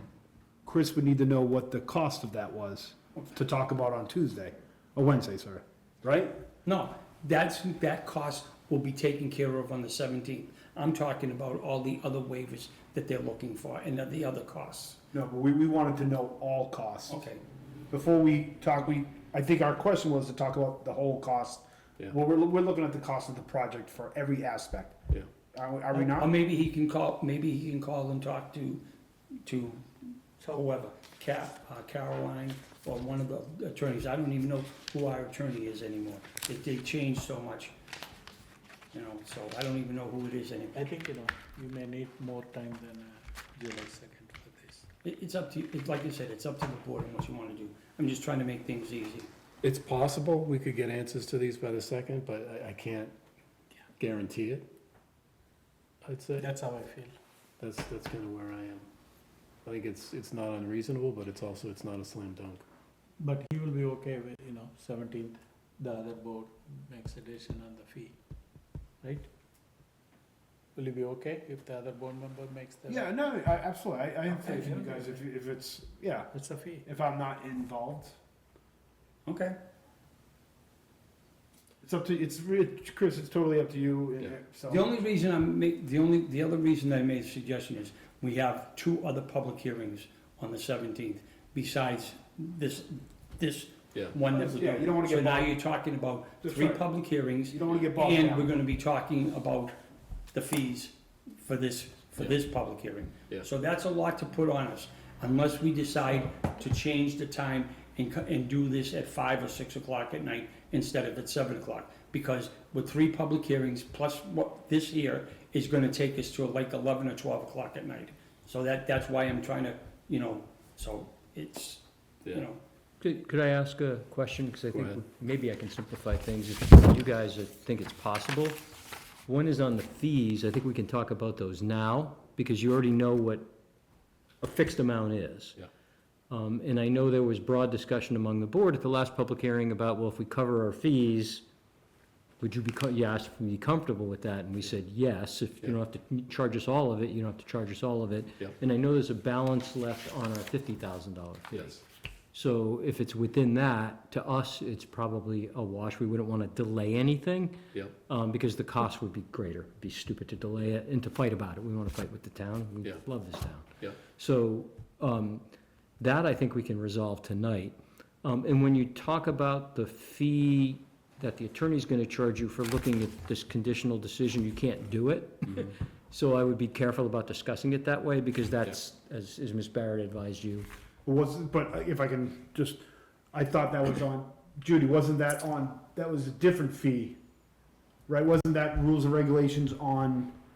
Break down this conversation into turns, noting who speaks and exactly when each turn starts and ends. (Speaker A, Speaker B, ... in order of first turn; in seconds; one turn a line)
Speaker A: 0.6-6.3
Speaker B: 6.6-15.0
Speaker A: 15.1-17.2
Speaker B: 17.1-17.4
Speaker A: 17.9-25.0
Speaker A: 25.5-26.3
Speaker B: 25.9-28.8
Speaker B: 29.4-29.9
Speaker B: 30.4-37.7
Speaker B: 38.9-40.8
Speaker C: 40.8-44.9
Speaker B: 45.0-49.3
Speaker D: 49.6-53.1
Speaker D: 54.0-54.7
Speaker D: 56.0-56.5
Speaker C: 56.4-57.1
Speaker D: 57.6-58.9
Speaker D: 59.6-62.6
Speaker C: 63.2-68.2
Speaker C: 69.0-69.3
Speaker C: 70.8-73.1
Speaker A: 72.8-76.3
Speaker C: 74.3-75.2
Speaker C: 76.3-76.8
Speaker A: 76.8-78.2
Speaker B: 79.2-79.5
Speaker A: 81.8-84.9
Speaker B: 84.7-99.7
Speaker A: 94.3-95.5
Speaker A: 96.4-96.8
Speaker A: 97.5-98.5
Speaker B: 100.3-122.6
Speaker E: 123.0-128.6
Speaker D: 124.7-125.0
Speaker E: 129.3-133.5
Speaker E: 134.4-135.6
Speaker E: 136.3-141.4
Speaker E: 142.4-151.8
Speaker D: 151.5-151.8
Speaker E: 152.3-165.4
Speaker E: 166.0-180.7
Speaker A: 181.0-187.2
Speaker A: 188.1-190.3